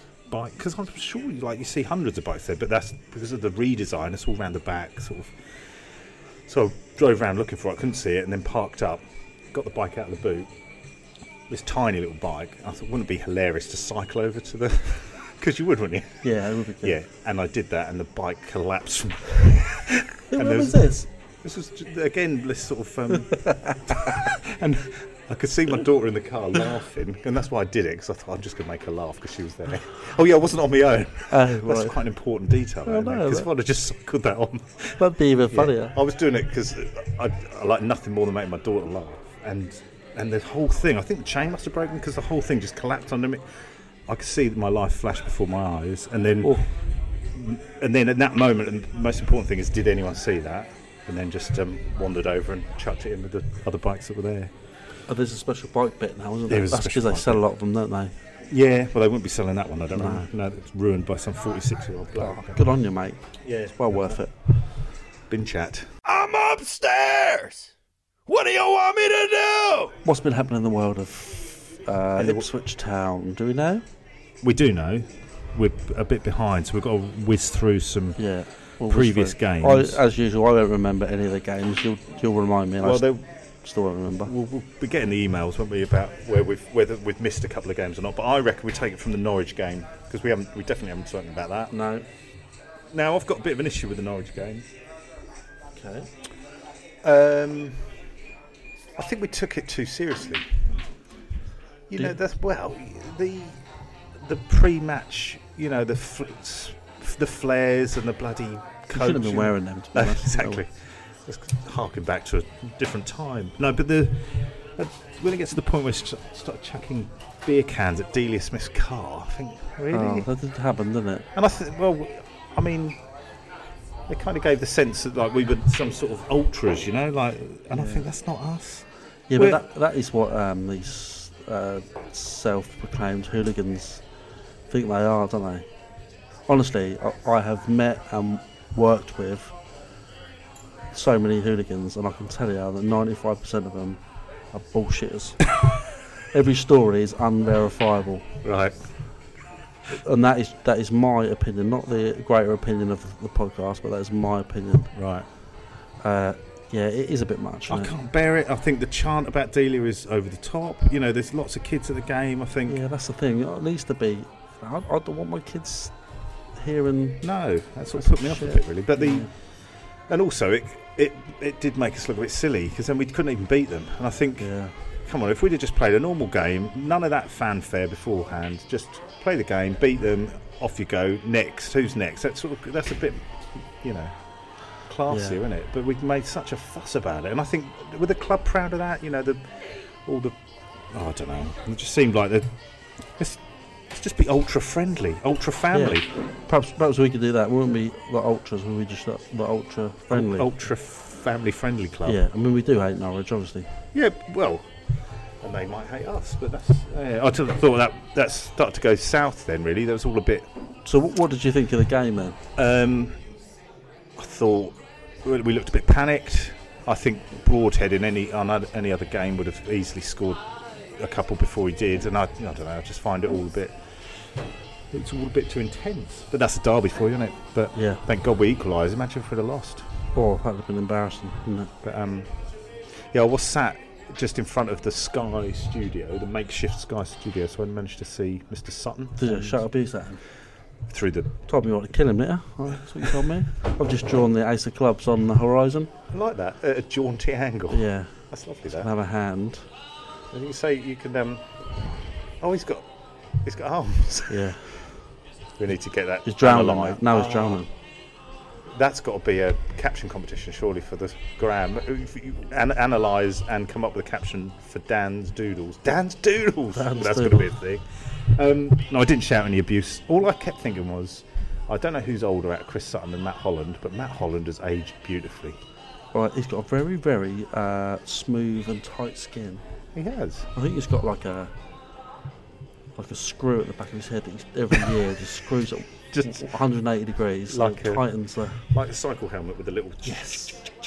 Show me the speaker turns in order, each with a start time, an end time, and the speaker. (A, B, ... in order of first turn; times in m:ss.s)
0:00.3-0:05.4 A
0:06.4-0:10.5 A
0:11.5-0:16.2 A
0:16.2-0:17.0 B
0:16.8-0:20.9 A
0:20.3-0:21.1 B
0:21.4-0:43.4 A
0:23.3-0:23.8 B
0:31.3-0:32.0 B
0:32.8-0:33.5 B
0:35.0-0:36.0 B
0:44.1-0:46.7 A
0:46.4-0:46.7 B
0:47.3-0:54.5 A
0:55.1-0:58.1 B
0:56.5-0:57.4 A
0:58.5-1:02.6 A
0:59.9-1:00.2 B
1:02.2-1:04.3 B
1:03.4-1:04.2 A
1:05.3-1:05.9 A
1:06.0-1:07.7 C
1:08.3-1:09.9 C
1:10.0-1:13.8 B
1:12.2-1:12.5 A
1:14.4-1:18.2 A
1:18.2-1:23.1 B
1:18.8-1:20.0 A
1:22.8-1:23.2 A
1:23.6-1:24.3 B
1:24.2-1:31.7 A
1:31.7-1:32.0 B
1:32.9-1:34.7 A
1:35.7-1:36.1 B
1:37.0-1:37.9 A
1:39.0-1:40.6 A
1:41.9-1:43.6 A
1:44.2-2:00.3 A
1:48.9-1:50.6 B
1:59.9-2:01.3 B
2:01.3-2:03.0 A
2:04.1-2:09.6 A
2:07.7-2:08.0 B
2:09.3-2:14.0 B
2:14.7-2:15.6 B
2:16.5-2:19.6 B
2:20.9-2:24.0 B
2:24.5-2:25.5 B
2:26.3-2:28.4 B
2:28.4-2:28.8 A
2:29.9-2:34.9 B
2:34.9-2:35.3 A
2:36.0-2:37.9 B
2:37.7-2:42.8 A
2:42.7-2:45.9 B
2:46.6-2:47.2 B
2:47.2-2:49.3 A
2:48.0-2:49.3 B
2:50.1-2:54.5 A
2:54.4-2:54.7 B
2:55.0-3:04.1 A
3:04.8-3:10.4 A
3:05.1-3:05.4 B
3:10.9-3:12.5 A
3:13.2-3:16.1 A
3:15.7-3:20.5 B
3:20.1-3:22.2 A
3:22.0-3:23.7 B
3:23.9-3:24.7 A
3:25.4-3:30.5 A
3:30.8-3:32.4 B
3:32.6-3:33.2 A
3:34.2-3:40.4 A
3:40.9-3:44.3 A
3:44.9-3:49.9 A
3:47.7-3:48.0 B
3:50.1-3:51.7 B
3:51.8-3:52.4 A
3:53.1-3:59.6 A
3:59.2-4:00.2 B
4:00.9-4:01.3 A
4:01.5-4:05.9 B
4:06.1-4:08.9 A
4:07.7-4:09.6 B
4:10.3-4:12.9 A
4:13.4-4:14.9 A
4:14.3-4:14.7 B
4:15.6-4:17.6 A
4:16.2-4:17.7 B
4:18.7-4:35.6 A
4:26.7-4:27.5 B
4:36.1-4:39.6 B
4:39.9-4:40.5 A
4:40.5-4:41.5 B
4:43.0-4:48.6 B
4:46.1-4:46.5 A
4:47.5-4:50.7 A
4:50.0-4:50.6 B